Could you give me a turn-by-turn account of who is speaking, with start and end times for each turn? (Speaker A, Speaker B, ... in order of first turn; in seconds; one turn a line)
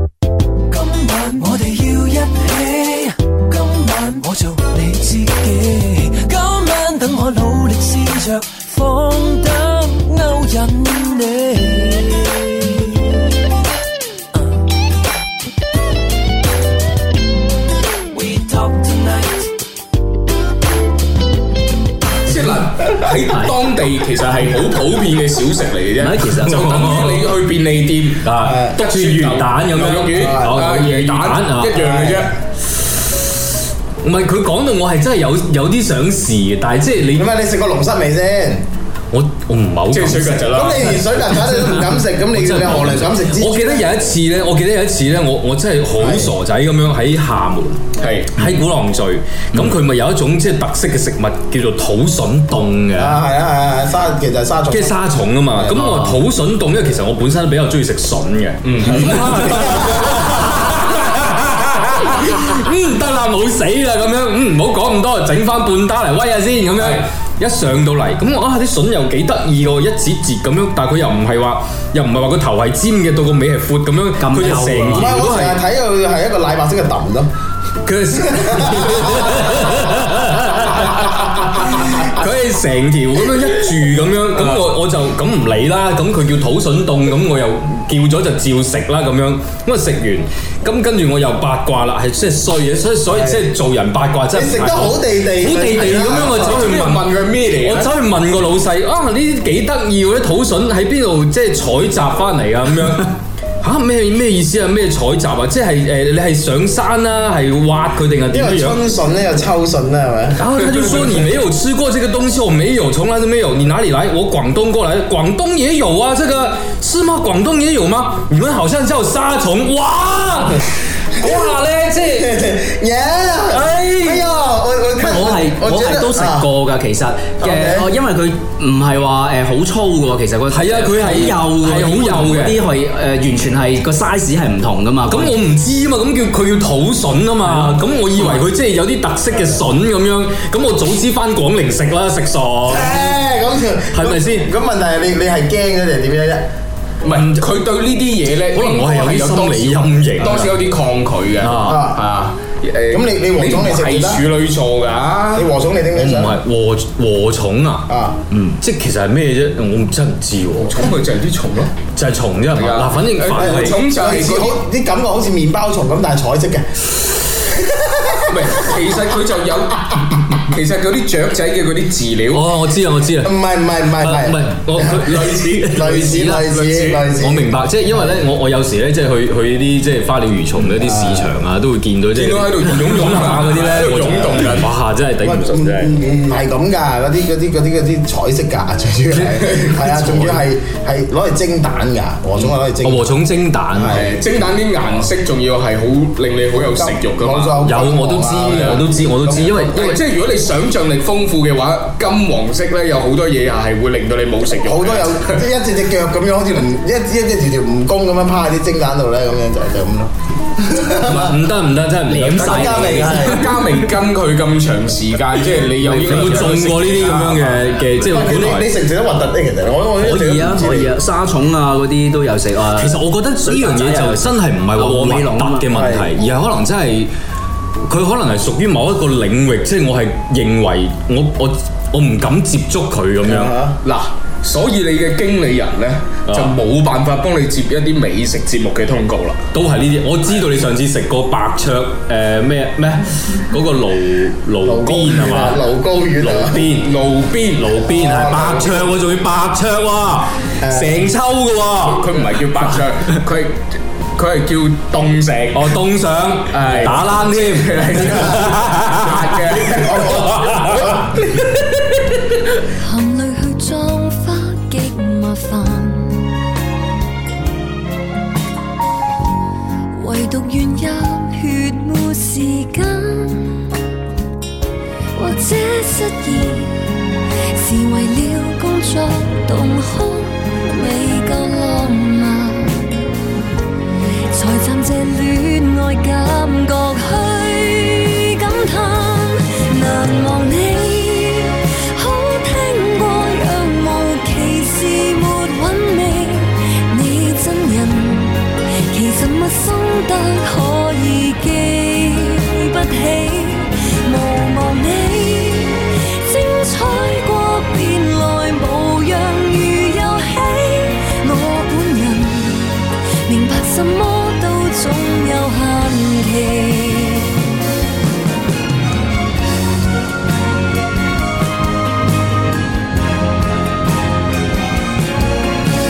Speaker A: 0.7-12.9
Speaker A: 18.1-19.4
Speaker B: 22.2-32.3
Speaker C: 26.0-26.6
Speaker D: 26.4-27.4
Speaker D: 28.2-31.9
Speaker E: 28.4-28.8
Speaker E: 30.2-30.6
Speaker E: 31.8-32.3
Speaker D: 34.0-37.3
Speaker E: 37.1-38.6
Speaker D: 39.1-47.8
Speaker B: 39.9-41.0
Speaker E: 40.5-43.9
Speaker E: 46.0-46.3
Speaker B: 48.0-48.5
Speaker D: 48.3-53.2
Speaker E: 53.0-54.9
Speaker D: 54.7-75.6
Speaker C: 55.8-56.1
Speaker B: 58.6-59.5
Speaker B: 66.8-67.0
Speaker C: 74.2-75.1
Speaker E: 74.9-77.3
Speaker D: 77.8-108.8
Speaker E: 78.3-79.2
Speaker E: 93.1-93.4
Speaker E: 94.3-96.6
Speaker B: 95.7-97.9
Speaker E: 108.3-110.4
Speaker D: 110.4-122.4
Speaker E: 121.2-121.6
Speaker E: 122.1-126.5
Speaker D: 123.5-124.3
Speaker C: 125.0-135.4
Speaker E: 127.4-127.9
Speaker D: 130.5-132.6
Speaker D: 135.1-143.1
Speaker C: 137.4-138.5
Speaker E: 142.7-146.4
Speaker D: 143.9-144.5
Speaker B: 147.0-155.5
Speaker D: 147.1-147.4
Speaker D: 148.5-150.6
Speaker D: 151.4-151.9
Speaker E: 151.6-152.0
Speaker E: 152.9-154.2
Speaker E: 155.3-156.4
Speaker D: 155.9-157.9
Speaker E: 157.9-158.2
Speaker D: 158.6-160.9
Speaker B: 160.6-161.8
Speaker D: 161.9-163.8
Speaker B: 162.5-164.6
Speaker E: 163.3-168.8
Speaker B: 168.3-172.5
Speaker D: 172.3-173.3
Speaker E: 173.2-175.1
Speaker D: 174.0-175.9
Speaker B: 174.9-177.1
Speaker E: 175.7-178.2
Speaker D: 177.2-185.9
Speaker E: 180.8-181.3
Speaker B: 182.1-184.7
Speaker E: 185.2-193.1
Speaker B: 189.1-190.4
Speaker D: 192.4-194.0
Speaker E: 193.7-194.1
Speaker B: 193.9-197.6
Speaker E: 196.5-199.9
Speaker D: 197.6-200.0
Speaker B: 198.5-198.8
Speaker B: 199.6-205.4
Speaker E: 204.6-211.3
Speaker D: 211.0-212.8
Speaker C: 212.1-213.3
Speaker B: 212.1-218.0
Speaker E: 212.4-213.6
Speaker C: 215.8-216.2
Speaker D: 216.0-218.7
Speaker E: 218.1-220.9
Speaker C: 220.0-225.7
Speaker D: 222.8-227.1
Speaker E: 225.7-226.1
Speaker D: 227.8-233.6
Speaker E: 233.2-233.8
Speaker B: 233.8-239.5
Speaker D: 236.3-236.6
Speaker D: 239.5-245.7
Speaker E: 244.6-246.6
Speaker D: 246.2-246.9
Speaker B: 246.6-248.7
Speaker D: 247.5-252.2
Speaker E: 247.9-248.5
Speaker E: 250.6-251.1
Speaker B: 251.9-253.6
Speaker B: 254.1-255.8
Speaker D: 255.5-259.5
Speaker B: 256.5-260.7
Speaker E: 259.6-261.4
Speaker D: 260.3-261.1
Speaker F: 262.7-266.4
Speaker F: 269.9-273.7
Speaker F: 275.1-283.0
Speaker F: 284.3-317.4